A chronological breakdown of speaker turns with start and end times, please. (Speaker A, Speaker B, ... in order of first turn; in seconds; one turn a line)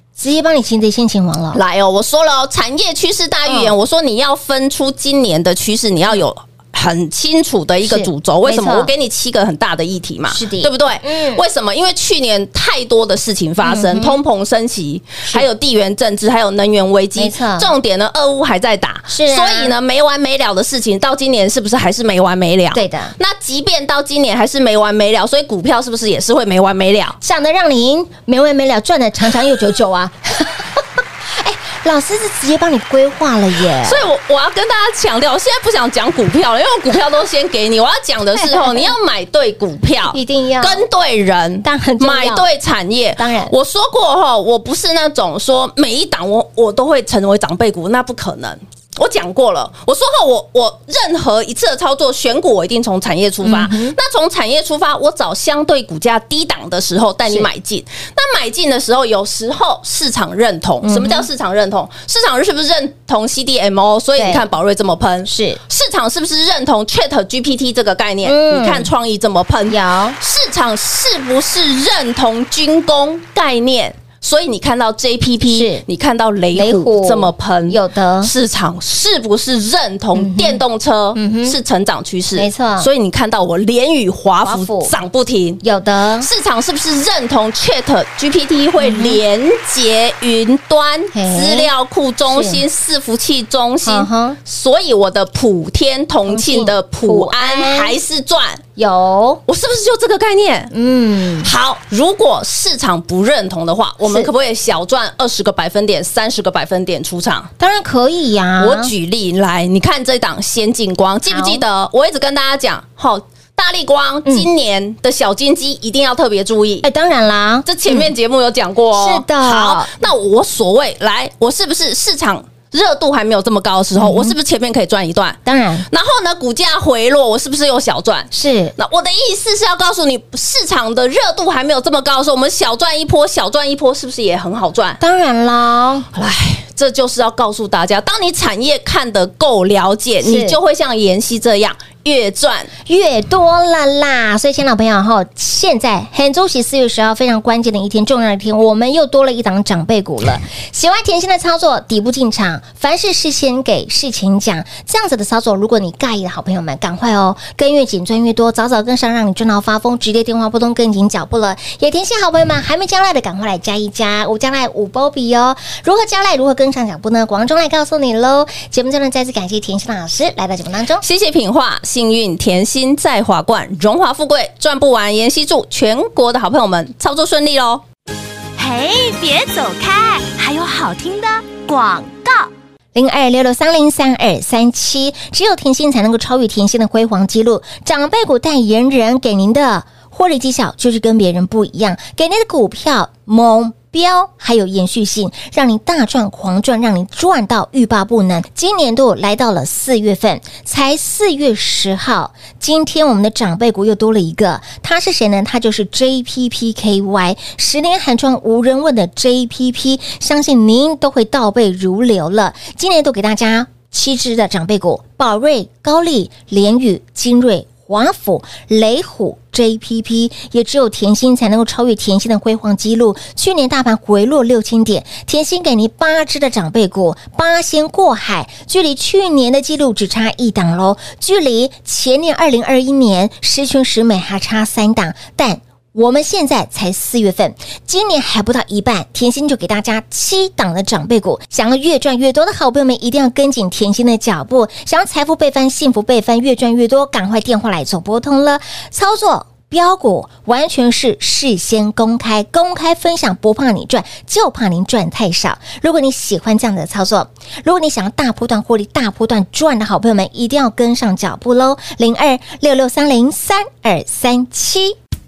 Speaker A: 0.2-1.6
Speaker B: 1.5-27.2
Speaker A: 3.5-3.7
Speaker A: 7.8-8.9
Speaker A: 10.3-11.4
Speaker A: 13.6-14.2
Speaker A: 17.1-17.7
Speaker A: 19.1-19.7
Speaker A: 22.7-23.1
Speaker A: 27.2-34.1
Speaker B: 33.8-85.6
Speaker A: 38.3-38.9
Speaker A: 40.1-40.8
Speaker A: 41.6-42.5
Speaker A: 43.2-43.5
Speaker A: 53.4-54.0
Speaker A: 60.8-61.3
Speaker A: 64.2-64.4
Speaker A: 65.3-65.6
Speaker A: 68.2-68.9
Speaker A: 69.7-70.2
Speaker A: 75.5-75.8
Speaker A: 76.5-78.3
Speaker A: 80.2-80.6
Speaker A: 81.1-81.6
Speaker A: 82.3-82.9
Speaker A: 84.4-84.9
Speaker A: 85.6-86.3
Speaker B: 86.2-98.6
Speaker A: 88.8-89.2
Speaker A: 91.1-91.7
Speaker A: 92.3-92.6
Speaker A: 93.8-94.4
Speaker A: 96.3-97.9
Speaker A: 98.8-99.4
Speaker B: 99.5-100.7
Speaker A: 100.7-101.5
Speaker B: 101.4-107.5
Speaker A: 104.0-104.3
Speaker A: 107.6-108.9
Speaker B: 108.6-116.9
Speaker A: 111.3-111.6
Speaker A: 116.8-118.1
Speaker B: 117.7-135.0
Speaker A: 118.9-119.9
Speaker A: 124.0-124.3
Speaker A: 125.4-125.9
Speaker A: 128.3-128.8
Speaker A: 135.0-136.1
Speaker B: 136.1-142.7
Speaker A: 140.2-140.6
Speaker A: 142.8-171.0
Speaker B: 171.0-177.8
Speaker C: 178.6-182.5
Speaker A: 182.9-264.9